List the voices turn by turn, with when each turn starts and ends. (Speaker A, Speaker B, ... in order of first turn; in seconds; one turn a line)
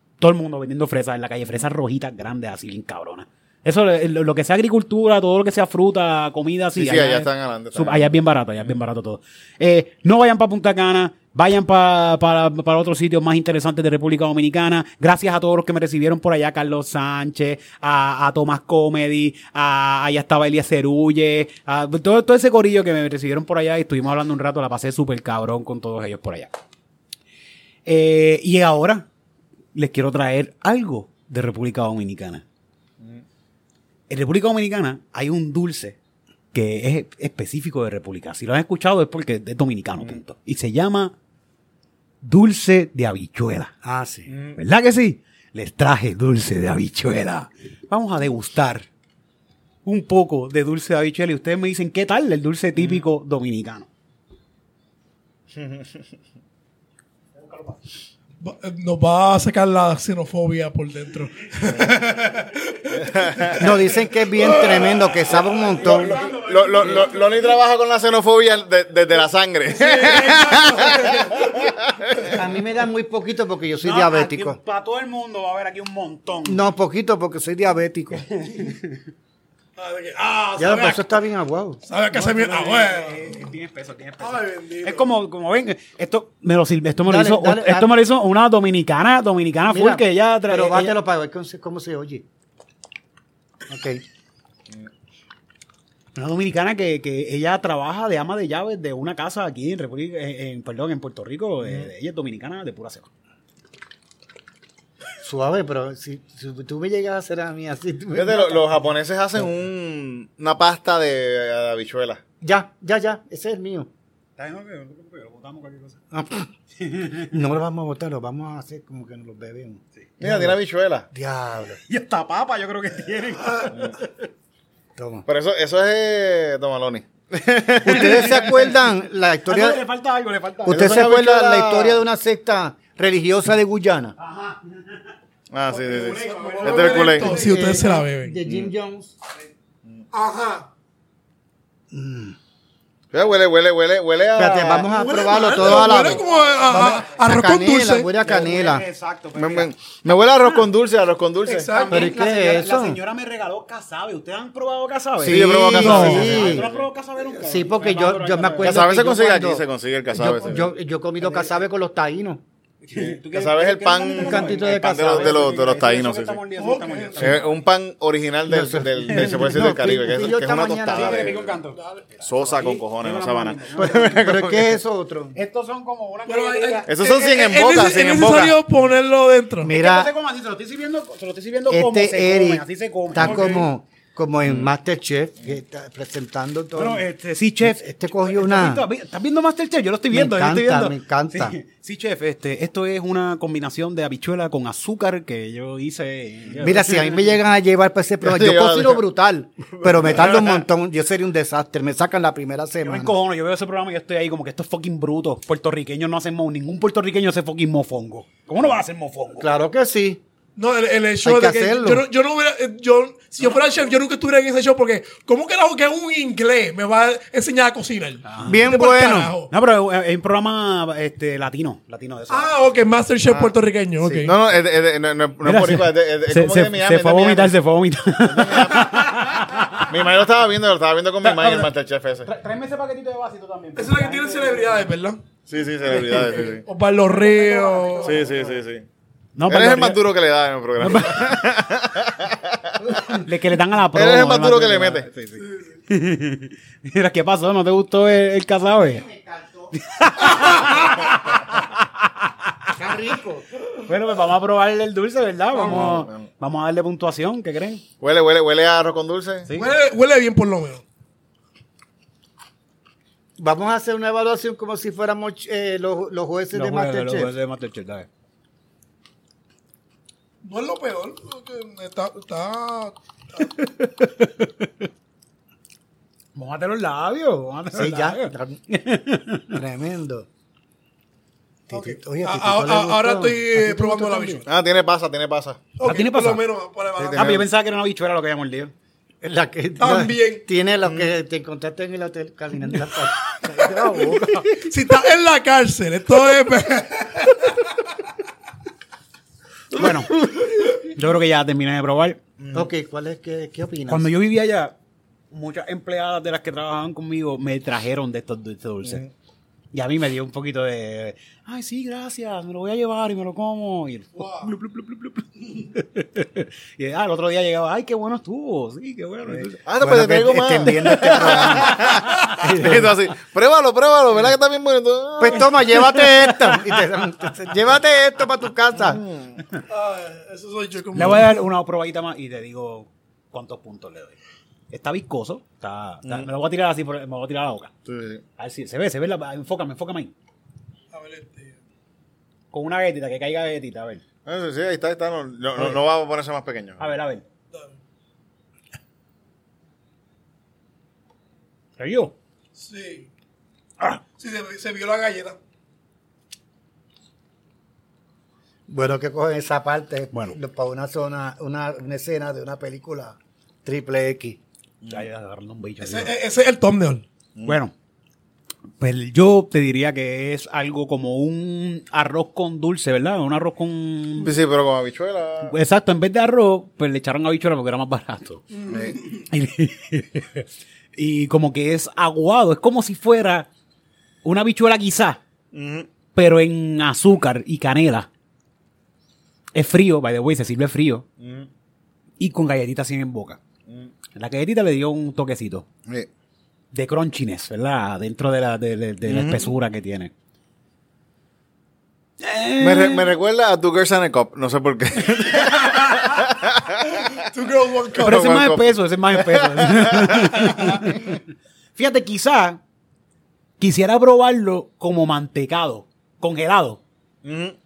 Speaker A: 0.2-26.5
Speaker B: 6.8-8.1
Speaker A: 27.9-29.1
Speaker A: 29.7-32.4
Speaker A: 34.1-36.0
Speaker A: 36.5-41.1
Speaker A: 42.2-43.7
Speaker C: 43.8-44.3
Speaker B: 44.3-44.6
Speaker A: 44.5-48.9
Speaker A: 49.8-53.9
Speaker B: 55.6-55.8
Speaker D: 58.4-63.7
Speaker B: 63.0-63.6
Speaker C: 63.6-66.1
Speaker D: 64.3-65.0
Speaker A: 65.9-67.4
Speaker B: 65.9-72.4
Speaker D: 69.7-71.7
Speaker C: 72.3-74.6
Speaker A: 73.8-76.6
Speaker C: 76.4-78.2
Speaker A: 78.2-79.0
Speaker D: 79.8-81.0
Speaker C: 80.6-81.8
Speaker D: 81.8-83.5
Speaker A: 82.1-90.9
Speaker D: 84.2-85.1
Speaker C: 87.0-87.9
Speaker C: 89.7-92.2
Speaker C: 93.7-94.0
Speaker A: 96.2-103.1
Speaker C: 105.2-108.7
Speaker B: 108.1-112.2
Speaker C: 112.4-113.9
Speaker A: 114.4-116.0
Speaker C: 116.1-116.5
Speaker A: 116.8-117.3
Speaker C: 117.2-120.5
Speaker B: 120.2-121.1
Speaker C: 121.1-121.8
Speaker A: 121.9-124.0
Speaker C: 125.0-125.2
Speaker B: 125.3-128.5
Speaker C: 127.8-129.8
Speaker A: 129.5-131.0
Speaker C: 130.7-134.1
Speaker B: 130.7-132.0
Speaker A: 134.2-135.0
Speaker B: 135.5-137.3
Speaker D: 135.7-138.4
Speaker A: 135.9-137.9
Speaker C: 137.3-139.1
Speaker B: 138.4-138.7
Speaker D: 140.1-140.7
Speaker C: 141.9-142.3
Speaker B: 143.1-144.9
Speaker C: 144.3-148.8
Speaker D: 144.9-148.1
Speaker A: 146.0-147.0
Speaker A: 148.2-149.7
Speaker B: 149.3-151.8
Speaker A: 151.4-158.8
Speaker D: 151.5-152.0
Speaker C: 151.9-153.0
Speaker C: 155.2-156.7
Speaker B: 155.2-156.8
Speaker C: 157.3-159.6
Speaker B: 158.6-160.7
Speaker C: 160.2-162.4
Speaker D: 160.2-160.5
Speaker A: 161.2-161.5
Speaker A: 162.9-167.5
Speaker B: 163.3-166.4
Speaker C: 164.2-165.6
Speaker D: 166.6-167.4
Speaker B: 167.2-171.5
Speaker C: 168.5-171.4
Speaker A: 169.1-169.6
Speaker A: 170.9-174.4
Speaker D: 171.8-172.1
Speaker B: 172.2-174.7
Speaker C: 173.7-175.4
Speaker A: 175.3-176.9
Speaker D: 176.3-179.7
Speaker B: 176.9-178.6
Speaker C: 179.6-180.1
Speaker A: 179.7-183.7
Speaker C: 181.7-187.1
Speaker A: 186.7-197.2
Speaker C: 187.6-188.8
Speaker C: 190.1-191.6
Speaker C: 196.6-203.2
Speaker B: 198.2-199.0
Speaker B: 199.7-200.6
Speaker A: 202.8-209.5
Speaker C: 209.4-210.2
Speaker D: 210.6-219.5
Speaker C: 211.2-212.0
Speaker A: 218.2-218.6
Speaker C: 218.4-219.3
Speaker A: 219.5-222.5
Speaker D: 222.3-224.3
Speaker A: 224.0-224.3
Speaker B: 224.2-227.5
Speaker A: 225.4-229.9
Speaker B: 228.2-228.9
Speaker B: 229.8-232.3
Speaker A: 231.2-231.7
Speaker A: 232.2-234.8
Speaker D: 233.8-235.2
Speaker B: 235.5-236.6
Speaker D: 235.9-238.4
Speaker C: 237.1-238.3
Speaker B: 238.0-238.8
Speaker A: 239.3-240.0
Speaker B: 239.5-243.2
Speaker A: 240.8-241.4
Speaker A: 243.2-245.1
Speaker B: 243.9-245.4
Speaker A: 245.9-249.1
Speaker C: 248.8-249.7
Speaker A: 249.7-252.3
Speaker C: 252.7-253.4
Speaker A: 253.8-257.8
Speaker B: 255.5-256.2
Speaker B: 258.0-259.5
Speaker A: 259.5-259.7
Speaker D: 259.5-260.8
Speaker C: 263.4-267.3
Speaker A: 266.5-268.1
Speaker D: 270.4-273.6
Speaker A: 273.4-274.9
Speaker A: 276.4-279.6
Speaker C: 277.7-278.6
Speaker C: 279.5-280.3
Speaker C: 281.7-284.4
Speaker D: 281.7-284.4
Speaker B: 284.5-285.7
Speaker D: 285.8-287.4
Speaker A: 285.8-286.4
Speaker B: 286.9-287.4
Speaker A: 287.1-288.7
Speaker C: 289.2-294.5
Speaker D: 289.8-290.4
Speaker A: 293.4-294.6
Speaker D: 294.6-297.6
Speaker A: 299.7-302.2
Speaker B: 302.4-302.7
Speaker C: 302.5-304.1
Speaker A: 303.9-304.7
Speaker A: 305.3-309.0
Speaker B: 308.8-309.1
Speaker A: 309.7-319.6
Speaker D: 314.1-314.5
Speaker B: 319.6-325.6
Speaker C: 319.8-321.8
Speaker A: 321.1-323.0
Speaker C: 325.2-329.0
Speaker A: 325.7-326.7
Speaker B: 328.8-329.4
Speaker D: 329.7-331.4
Speaker A: 330.9-334.1
Speaker A: 334.7-337.7
Speaker B: 337.9-338.2
Speaker A: 338.4-340.1
Speaker D: 340.9-341.5
Speaker A: 342.5-344.0
Speaker B: 344.2-346.9
Speaker A: 346.8-347.2
Speaker A: 351.8-352.1
Speaker D: 352.6-353.1
Speaker D: 354.2-355.4
Speaker C: 358.7-364.4
Speaker A: 360.1-360.4
Speaker A: 364.9-366.1
Speaker D: 365.8-367.0
Speaker A: 367.4-367.7
Speaker A: 368.8-374.3
Speaker B: 374.2-375.5
Speaker A: 375.4-378.4
Speaker B: 378.7-379.0
Speaker A: 379.2-383.5
Speaker A: 384.2-385.2
Speaker B: 385.5-385.9
Speaker A: 386.1-388.1
Speaker A: 389.5-391.0
Speaker B: 391.2-391.5
Speaker A: 392.2-393.4
Speaker A: 394.1-395.6
Speaker A: 396.7-400.1
Speaker B: 399.1-399.5
Speaker A: 402.2-403.1
Speaker B: 402.6-406.8
Speaker D: 405.4-405.8
Speaker D: 407.2-408.4
Speaker B: 407.9-410.3
Speaker A: 408.0-411.2
Speaker D: 410.4-410.8
Speaker A: 411.8-412.6
Speaker A: 413.6-416.8
Speaker B: 417.2-417.6